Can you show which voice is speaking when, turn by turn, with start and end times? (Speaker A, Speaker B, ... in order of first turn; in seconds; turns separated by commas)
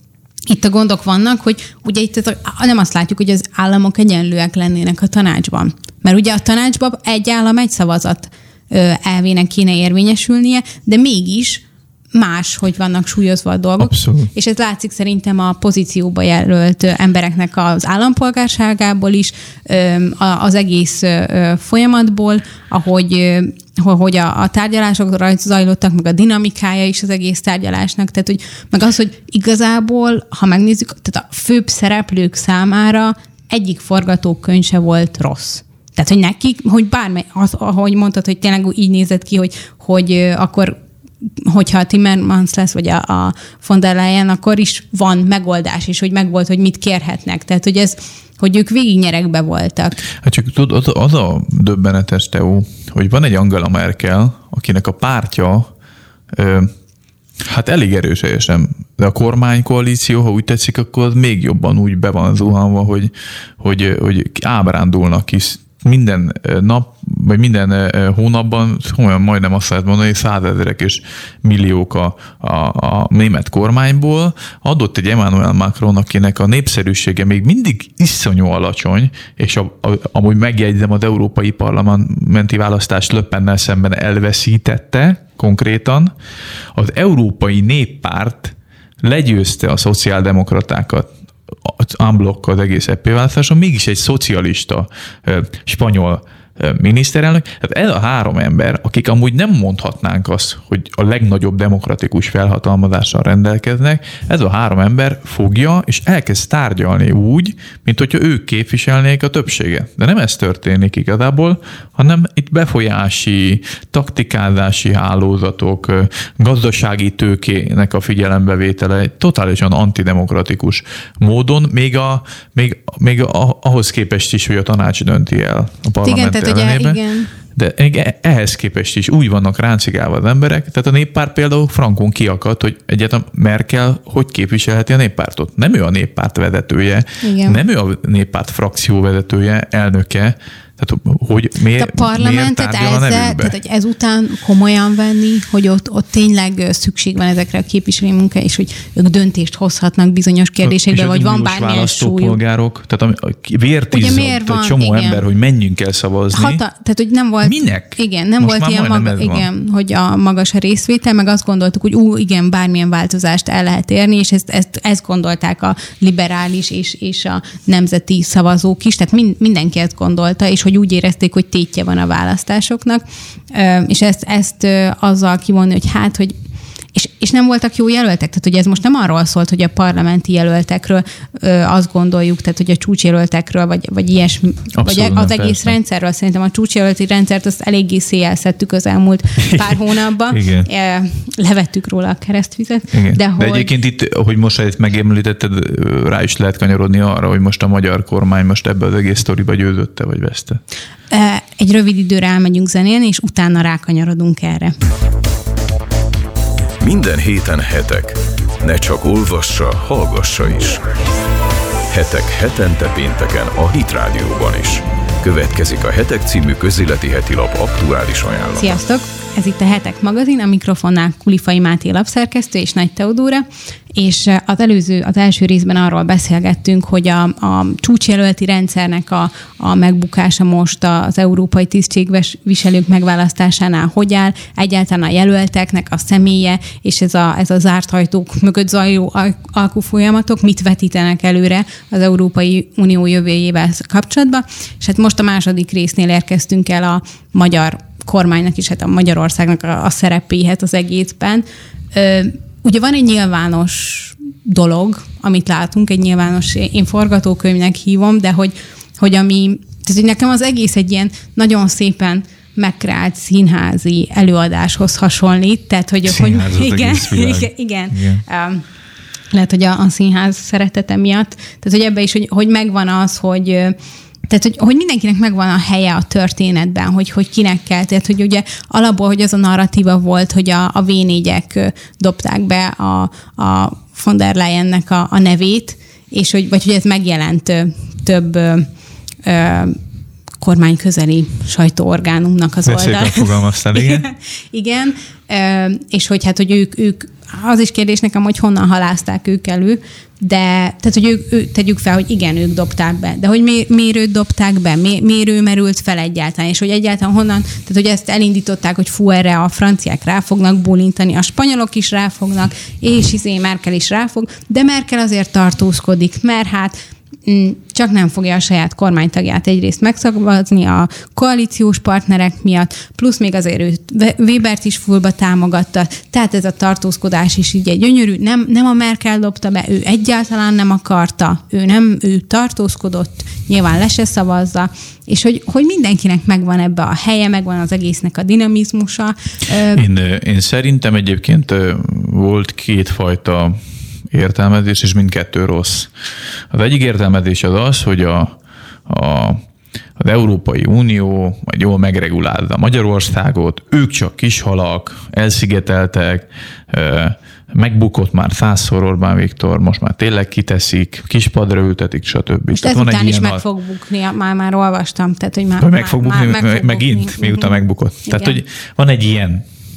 Speaker A: 0.5-50.1, Speaker B: 13.8-14.3, Speaker B: 50.2-55.7, Speaker B: 56.3-56.7, Speaker B: 57.4-86.1, Speaker B: 86.7-91.1, Speaker B: 91.6-127.0, Speaker A: 126.0-127.3, Speaker B: 127.5-143.5, Speaker A: 137.2-137.6, Speaker A: 141.8-152.4, Speaker B: 150.6-156.6, Speaker A: 153.9-155.2, Speaker A: 156.3-176.3, Speaker B: 157.4-159.5, Speaker A: 176.9-193.7, Speaker B: 184.8-185.8, Speaker B: 189.4-190.7, Speaker B: 192.9-200.6, Speaker A: 201.1-204.8, Speaker C: 206.8-210.8, Speaker C: 211.9-218.8, Speaker A: 218.6-268.6, Speaker B: 266.1-268.2, Speaker A: 269.3-273.8, Speaker A: 274.3-288.7, Speaker A: 289.2-289.8, Speaker A: 290.4-339.8, Speaker B: 292.7-294.1, Speaker B: 339.7-343.6, Speaker B: 344.1-345.9, Speaker B: 346.5-348.4, Speaker B: 348.9-349.4, Speaker B: 350.0-363.4, Speaker A: 362.6-368.4, Speaker B: 365.6-369.4